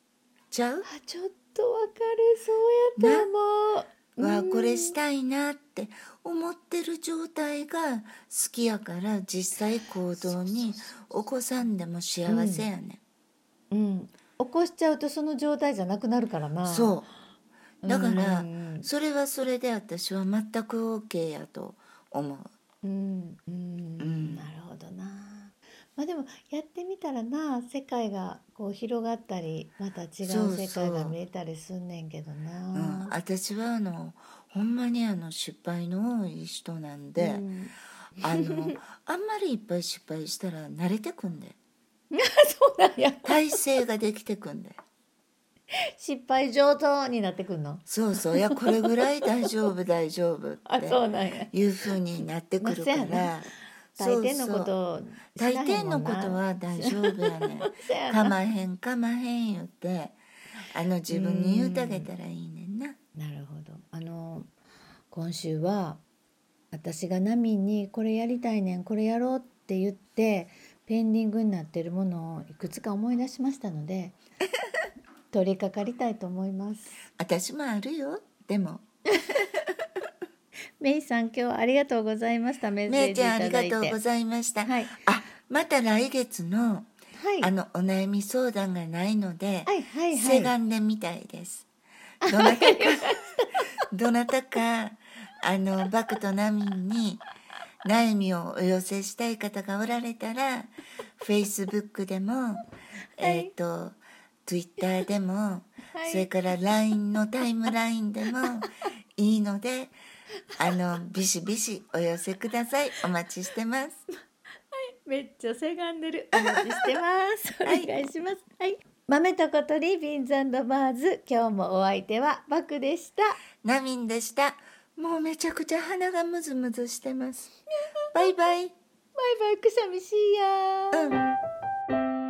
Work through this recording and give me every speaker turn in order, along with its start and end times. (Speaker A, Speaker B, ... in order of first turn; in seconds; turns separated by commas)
Speaker A: 0.5-0.9, Speaker B: 0.8-5.0, Speaker A: 3.0-3.3, Speaker A: 4.2-13.0, Speaker B: 10.1-11.1, Speaker B: 12.2-12.7, Speaker B: 13.7-17.0, Speaker A: 16.6-17.1, Speaker B: 17.8-18.9, Speaker A: 17.9-22.5, Speaker B: 22.8-33.1, Speaker A: 24.0-24.5, Speaker A: 30.2-31.1, Speaker A: 32.7-37.4, Speaker B: 37.2-37.7, Speaker A: 38.2-41.6, Speaker B: 38.2-38.8, Speaker B: 42.1-43.6, Speaker A: 43.2-44.8, Speaker B: 46.0-48.4, Speaker A: 47.9-54.7, Speaker B: 50.6-51.5, Speaker B: 52.6-53.4, Speaker B: 54.0-58.4, Speaker A: 55.4-60.2, Speaker A: 60.7-63.0, Speaker B: 61.1-62.1, Speaker B: 63.1-64.5, Speaker B: 65.1-66.0, Speaker B: 66.7-74.2, Speaker B: 75.3-77.0, Speaker A: 77.2-78.8, Speaker B: 80.8-84.0, Speaker A: 82.9-91.7, Speaker B: 84.6-85.0, Speaker B: 87.1-87.5, Speaker B: 89.7-90.5, Speaker B: 92.2-93.6, Speaker A: 92.2-93.3, Speaker A: 93.9-97.2, Speaker A: 97.8-102.6, Speaker B: 103.2-103.5, Speaker A: 103.2-110.0, Speaker B: 105.9-106.3, Speaker A: 110.6-114.0, Speaker B: 114.7-123.4, Speaker A: 116.3-116.9, Speaker A: 117.6-117.9, Speaker A: 123.6-127.5, Speaker A: 128.1-128.7, Speaker B: 129.2-131.0, Speaker A: 130.9-131.2